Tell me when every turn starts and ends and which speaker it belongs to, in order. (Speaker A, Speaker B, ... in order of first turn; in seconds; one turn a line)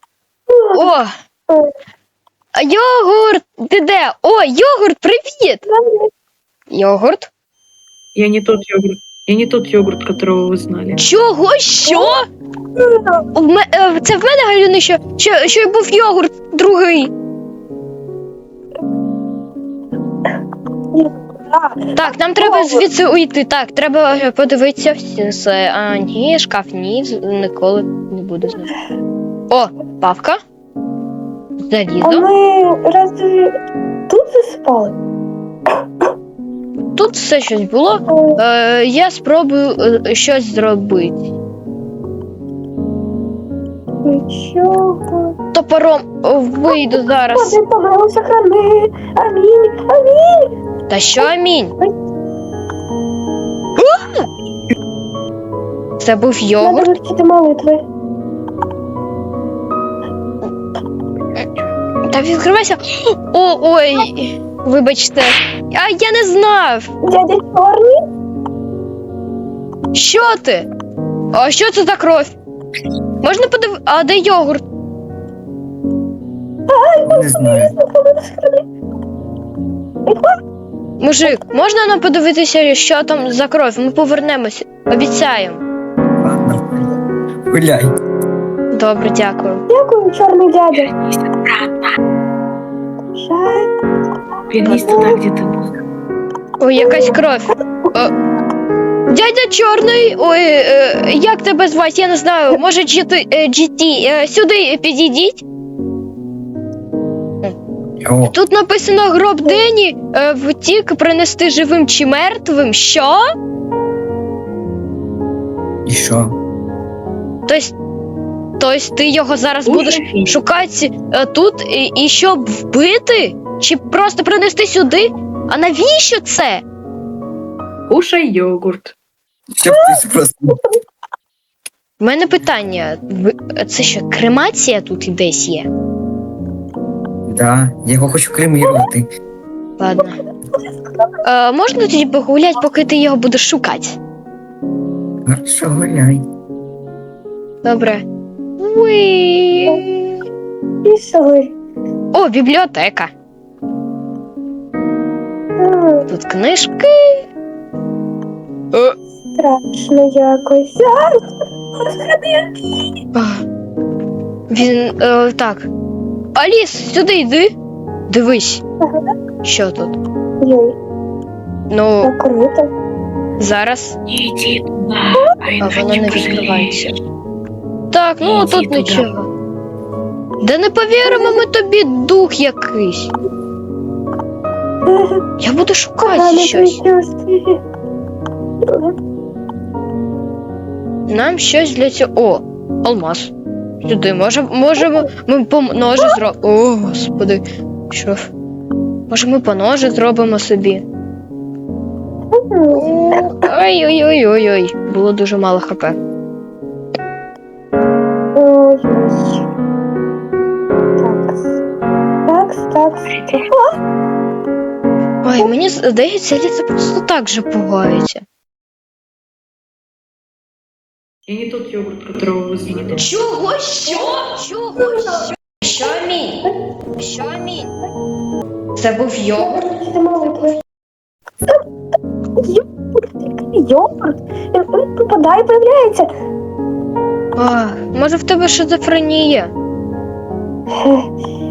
Speaker A: 0.5-0.9
Speaker B: 0.7-1.1
Speaker B: 2.5-5.6
Speaker A: 5.7-6.1
Speaker B: 6.7-7.3
Speaker C: 8.1-11.0
Speaker B: 11.0-12.2
Speaker A: 11.8-12.2
Speaker A: 12.8-13.2
Speaker B: 13.3-17.1
Speaker A: 20.9-22.9
Speaker B: 21.9-28.7
Speaker B: 29.5-30.4
Speaker B: 31.6-32.3
Speaker A: 32.0-33.6
Speaker A: 34.1-35.0
Speaker B: 37.0-41.3
Speaker A: 38.1-38.4
Speaker A: 44.0-45.3
Speaker B: 45.5-47.6
Speaker A: 47.3-50.5
Speaker B: 50.9-51.7
Speaker A: 51.2-51.9
Speaker B: 53.8-54.3
Speaker B: 56.0-56.9
Speaker A: 56.6-57.8
Speaker B: 62.0-66.9
Speaker A: 67.0-68.0
Speaker B: 69.9-70.7
Speaker B: 71.3-72.3
Speaker B: 73.2-74.6
Speaker A: 76.7-78.6
Speaker D: 77.1-77.7
Speaker A: 80.0-80.3
Speaker B: 81.0-85.6
Speaker D: 86.2-86.9
Speaker D: 87.5-87.9
Speaker B: 88.7-89.6
Speaker A: 89.7-90.9
Speaker C: 90.7-91.9
Speaker A: 93.1-93.7
Speaker C: 94.5-95.7
Speaker A: 94.7-95.2
Speaker B: 96.6-98.1
Speaker A: 96.8-97.2
Speaker B: 99.1-105.4
Speaker D: 108.0-108.3
Speaker B: 108.2-113.2
Speaker D: 115.8-116.3
Speaker B: 117.5-117.7
Speaker B: 118.6-126.6
Speaker C: 119.7-120.4
Speaker C: 127.9-128.9
Speaker D: 129.5-130.6
Speaker A: 129.7-130.8
Speaker B: 132.0-135.7
Speaker D: 137.3-139.1
Speaker A: 138.6-138.9
Speaker B: 139.8-140.2
Speaker B: 141.2-144.0
Speaker D: 145.2-146.2
Speaker B: 147.6-148.0
Speaker B: 148.6-150.2
Speaker A: 150.8-151.5
Speaker B: 152.1-153.1
Speaker A: 155.6-156.1
Speaker B: 156.1-157.2
Speaker A: 159.3-162.8
Speaker B: 163.1-163.4
Speaker B: 164.5-165.7
Speaker B: 166.3-167.5
Speaker B: 168.1-168.6
Speaker A: 168.8-169.1
Speaker B: 169.4-170.0
Speaker A: 170.4-170.8
Speaker B: 171.7-172.1
Speaker A: 172.0-172.7
Speaker B: 173.4-174.0
Speaker C: 174.1-177.0
Speaker B: 175.6-177.0
Speaker B: 177.9-179.3
Speaker C: 178.2-179.1
Speaker B: 180.4-183.1
Speaker A: 181.0-181.4
Speaker A: 184.8-185.2
Speaker B: 185.4-186.8
Speaker A: 186.0-187.6
Speaker A: 188.6-188.9
Speaker B: 191.1-198.3
Speaker B: 199.1-200.8
Speaker A: 202.3-202.9
Speaker B: 202.7-206.0
Speaker A: 208.3-209.4
Speaker A: 211.0-211.6
Speaker A: 212.3-213.8
Speaker B: 215.2-218.2
Speaker C: 221.3-223.0
Speaker B: 223.0-227.7
Speaker A: 224.8-225.2
Speaker B: 228.8-229.6
Speaker A: 229.4-230.6
Speaker A: 232.4-236.1
Speaker B: 237.3-239.5
Speaker A: 240.7-241.1